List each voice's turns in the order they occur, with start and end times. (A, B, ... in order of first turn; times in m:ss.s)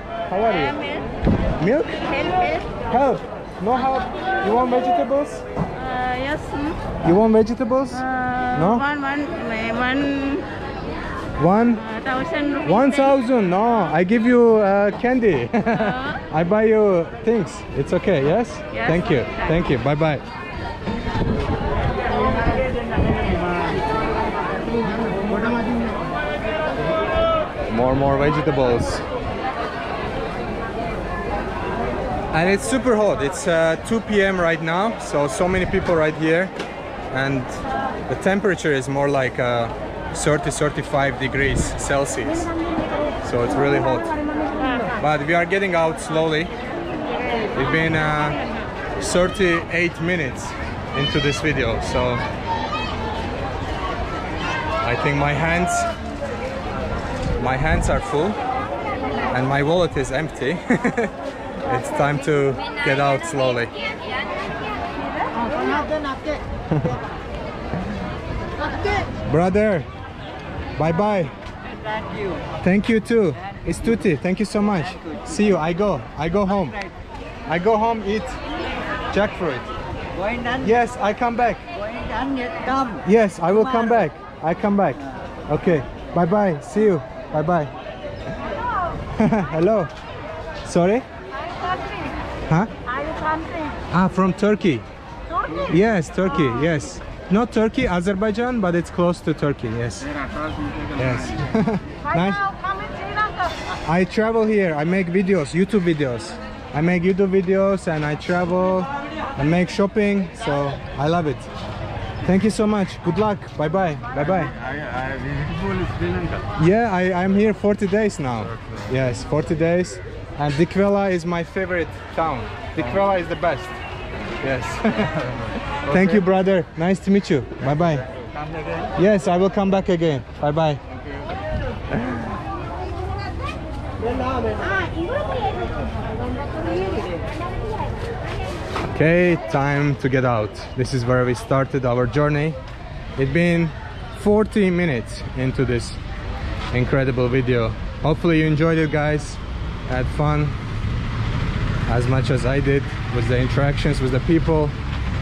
0:00.3-0:00.8 A
0:00.6-0:01.1 B
0:01.6-0:02.0 A
0:02.0-0:02.7 B
0:02.9-0:05.4 A
0:05.8-0:06.8 B
0:07.0-0:08.9 A
0:08.1-0:10.5 B
0:11.4-0:11.9 A
0:11.9-0:13.1 B
0:12.6-0:20.2 A
0:18.8-0:19.5 B
0:22.1-0:23.6 B
0:27.7-0:29.0 A
0:32.3-0:36.5 A
0:37.1-0:42.5 A
0:43.2-0:44.1 A
0:45.0-0:46.5 A
0:47.5-0:48.4 A
0:49.0-0:52.2 A
0:54.8-0:55.9 A
0:57.4-0:58.4 A
0:59.3-1:01.1 A
1:01.6-1:03.7 A
1:05.4-1:06.1 B
1:05.6-1:06.1 C
1:06.7-1:07.0 A
1:09.3-1:09.9 A
1:10.8-1:11.3 A
1:11.7-1:12.4 C
1:12.6-1:16.8 A
1:15.0-1:15.6 C
1:16.5-1:16.9 C
1:17.5-1:18.4 A
1:19.1-1:19.7 A
1:20.2-1:20.8 C
1:20.6-1:21.6 A
1:21.8-1:24.0 C
1:23.0-1:27.7 A
1:29.2-1:29.9 A
1:30.6-1:31.0 A
1:31.6-1:32.1 B
1:33.0-1:33.8 B
1:33.9-1:34.9 A
1:35.7-1:40.1 A
1:40.0-1:41.5 D
1:41.0-1:42.5 A
1:42.6-1:43.4 B
1:43.8-1:51.5 A
1:52.2-1:54.5 A
1:54.2-1:56.4 D
1:56.6-2:03.8 A
2:04.4-2:08.0 A
2:05.9-2:06.2 D
2:08.1-2:08.9 D
2:09.0-2:10.8 A
2:10.9-2:11.2 D
2:11.9-2:12.3 A
2:18.9-2:22.6 A
2:23.2-2:26.0 A
2:26.7-2:30.6 A
2:31.9-2:34.8 A